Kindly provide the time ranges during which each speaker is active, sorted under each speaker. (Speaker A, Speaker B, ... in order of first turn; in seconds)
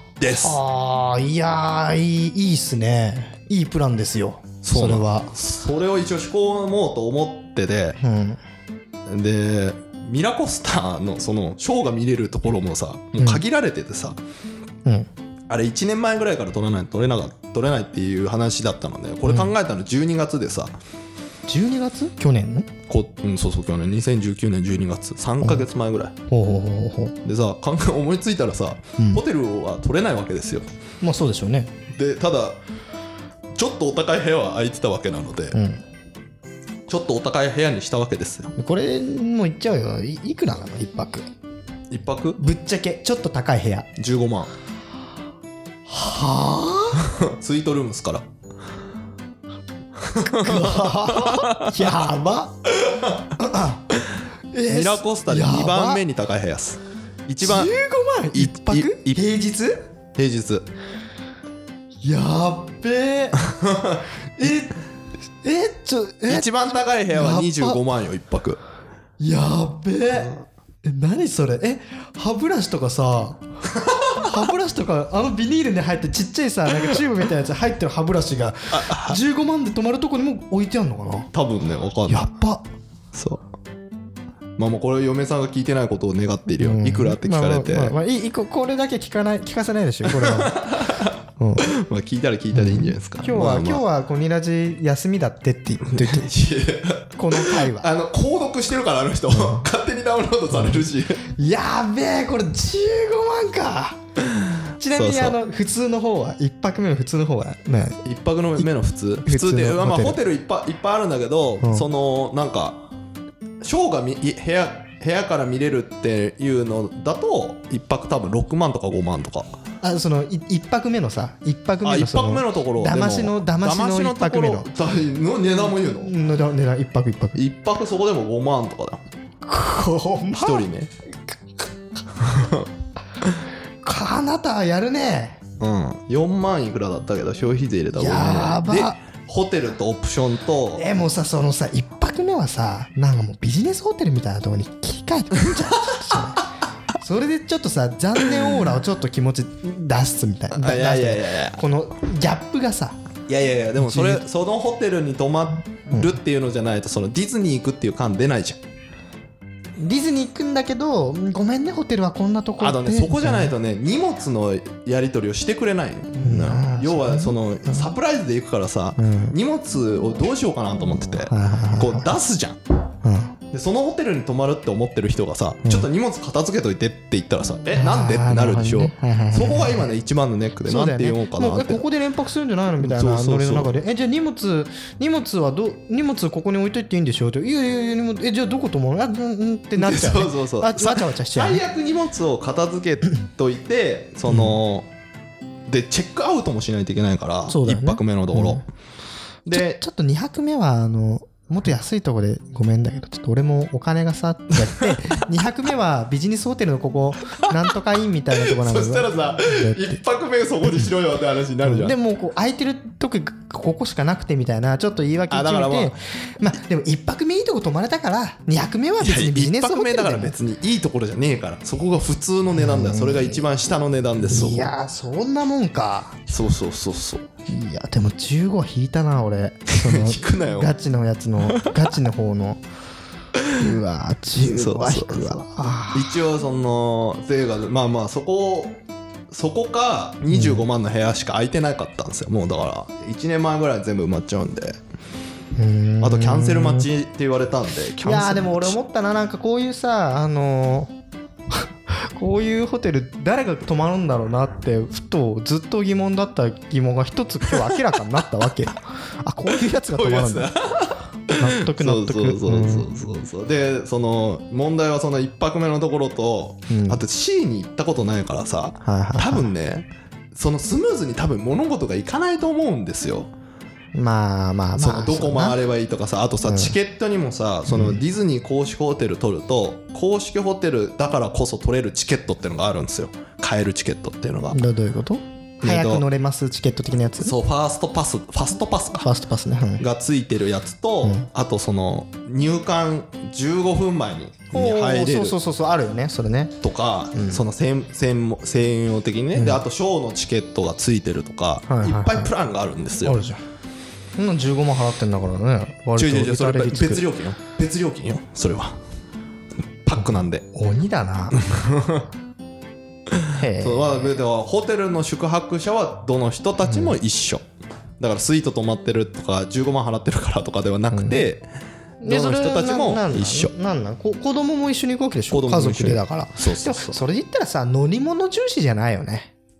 Speaker A: 0.2-0.6, 4.6-8.0, 9.1-14.2, 15.5-20.7, 22.9-26.1, 27.2-30.7, 31.9-32.6, 33.5-35.5, 36.9-38.5, 41.9-42.4, 44.0-44.5, 47.0-48.3, 50.0-52.0, 52.9-53.1, 54.7-57.7, 58.3-59.2, 60.1-60.6, 63.6-64.0, 66.3-68.6, 78.7-79.2, 81.3-82.3, 83.1-83.4, 84.6-87.9, 90.1-93.8, 95.8-101.2, 104.4-105.4, 108.0-112.8, 113.6-119.6, 121.8-126.1, 127.3-129.0, 130.3-130.9, 132.1-132.7, 135.6-140.8, 150.5-151.6, 153.3-158.6, 162.6-172.6, 173.5-181.8, 182.8-183.7, 189.8-194.9, 195.7-198.6, 199.4-199.8, 208.3-212.0, 215.3-215.9, 219.0-224.7, 226.3-227.2, 229.8-230.7, 231.4-231.8, 234.4-238.8, 239.3-244.8, 246.0-248.8, 257.5-257.9, 259.5-273.3, 274.8-284.6, 285.6-286.0, 287.2-289.1, 289.8-295.4, 296.6-303.2, 305.9-308.8, 309.8-310.4, 311.3-312.1, 313.1-317.4, 318.0-321.4, 322.0-323.5, 325.3-327.0
Speaker B: 0.3-5.3, 8.0-8.4, 21.5-22.7, 26.3-27.1, 31.0-31.7, 35.5-35.8, 38.5-41.3, 42.4-43.9, 45.9-47.1, 50.2-52.6, 53.4-53.9, 54.5-56.0, 57.4-59.8, 62.0-63.4, 64.4-64.8, 65.4-67.8, 69.2-73.4, 74.2-81.3, 82.1-82.6, 86.6-90.7, 91.4-91.7, 92.5-96.3, 97.2-97.9, 99.3-99.6, 100.5-104.0, 104.8-108.0, 109.2-110.2, 119.8-124.7, 125.9-127.4, 129.4-130.6, 133.8-135.4, 137.9-139.0, 140.8-146.4, 147.0-153.0, 153.8-154.2, 159.8-163.5, 166.2-167.8, 169.0-169.3, 171.3-172.1, 173.0-173.3, 177.7-179.8, 180.7-191.6, 194.3-194.6, 197.5-198.6, 199.5-210.0, 211.6-220.3, 222.6-223.4, 224.3-226.2, 227.5-232.6, 233.5-236.2, 240.3-240.6, 245.5-246.9, 248.0-250.9, 251.5-260.5, 261.4-262.9, 266.7-267.0, 268.8-269.5, 273.9-275.6, 276.4-276.7, 277.7-278.0, 284.5-287.3, 289.0-289.8, 294.5-296.6, 297.1-297.4, 299.3-299.6, 301.7-302.3, 303.0-303.4, 304.1-307.0, 310.0-311.4, 313.3-314.1, 316.6-316.9, 320.9-321.2, 322.0-329.3